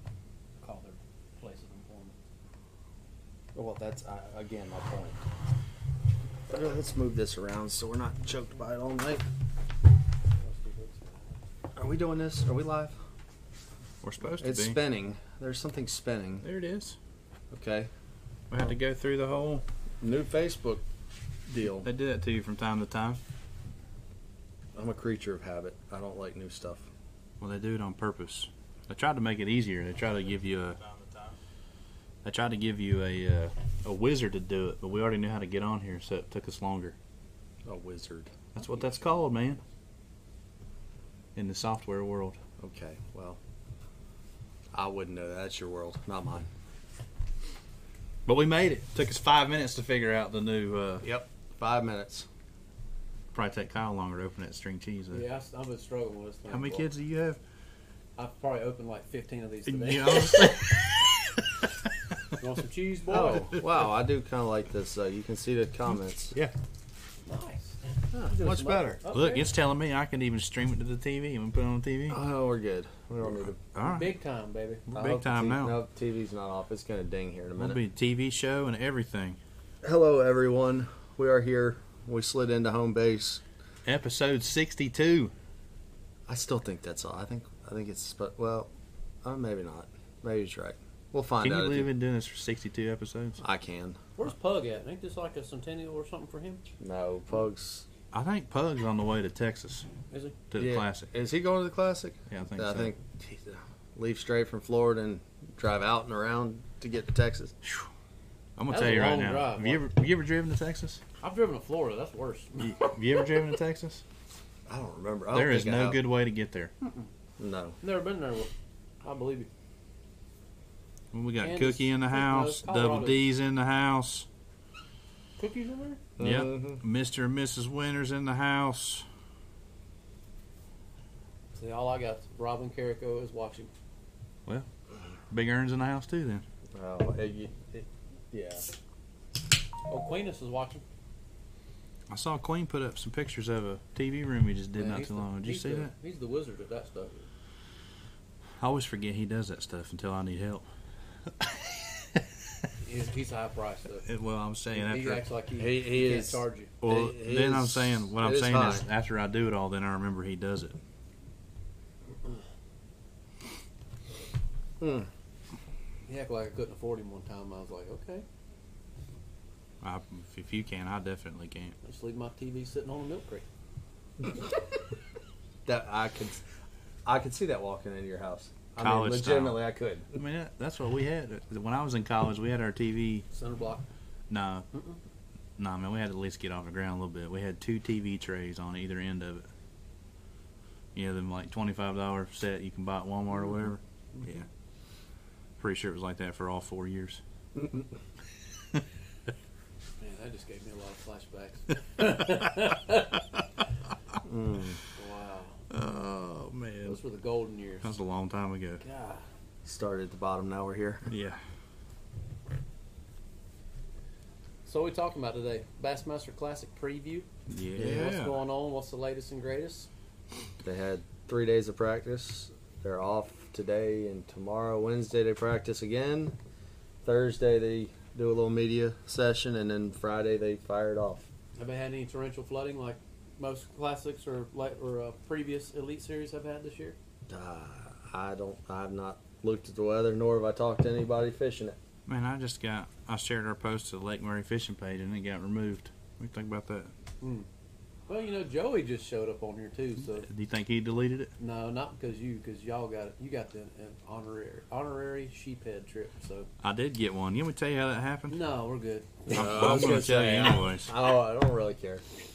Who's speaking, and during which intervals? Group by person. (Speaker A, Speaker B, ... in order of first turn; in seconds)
Speaker A: 0.6-2.1, 10.5-11.2, 55.1-56.9, 58.2-60.5, 62.3-63.5, 67.2-69.5, 73.8-74.8, 94.2-96.6, 100.1-100.4, 108.7-109.8, 111.2-113.2, 117.8-118.5, 119.0-119.5, 121.4-123.2, 125.4-126.0, 131.5-133.7, 139.9-140.8, 144.8-147.3, 152.8-154.1, 154.7-156.7, 166.1-168.2, 171.8-173.5, 183.3-183.8, 184.7-185.0, 200.0-203.2, 204.9-205.6, 206.8-207.9, 208.8-209.2, 214.7-219.9, 231.6-237.0, 247.2-247.5, 248.1-250.3, 251.4-256.5, 258.3-259.7
Speaker B: 3.5-5.2, 6.5-9.2, 11.8-12.9, 14.4-16.4, 17.5-17.9, 20.0-20.8, 21.5-21.9, 24.8-26.9, 37.7-38.4, 42.6-43.4, 44.7-46.5, 51.0-52.3, 63.1-66.3, 68.1-69.0, 72.1-73.6, 74.9-77.8, 79.8-83.4, 86.3-88.7, 89.2-91.9, 93.4-94.0, 96.8-97.8, 100.6-107.5, 114.7-116.0, 117.4-117.8, 126.2-126.8, 136.8-138.7, 155.6-158.8, 164.8-165.1, 175.7-176.4, 177.1-180.1, 204.2-204.8, 209.6-211.1, 220.6-226.4, 227.0-231.3, 237.3-241.8, 259.3-262.0
Speaker C: 14.0-14.8, 16.4-17.0, 18.5-19.6, 21.8-23.2, 27.4-31.3, 32.2-36.9, 38.5-39.6, 41.4-42.4, 48.2-51.1, 53.3-55.2, 56.5-57.4, 59.7-61.5, 63.2-63.6, 69.1-72.2, 73.6-74.1, 74.9-75.8, 77.6-79.4, 83.8-85.3, 91.4-93.4, 98.1-99.9, 100.5-101.1, 102.3-102.9, 108.6-111.0, 112.6-114.0, 115.3-116.7, 121.1-124.3, 126.2-129.1, 135.3-136.4, 142.1-145.9, 148.6-150.7, 151.4-152.2, 154.1-155.2, 156.8-160.8, 169.8-171.8, 178.8-179.6, 180.1-183.2, 184.3-184.7, 185.6-189.5, 190.9-194.4, 195.6-197.2, 205.7-207.0, 207.8-208.8, 211.1-211.4, 217.5-218.4, 242.1-246.9, 250.2-251.3, 256.6-258.4, 259.3-260.9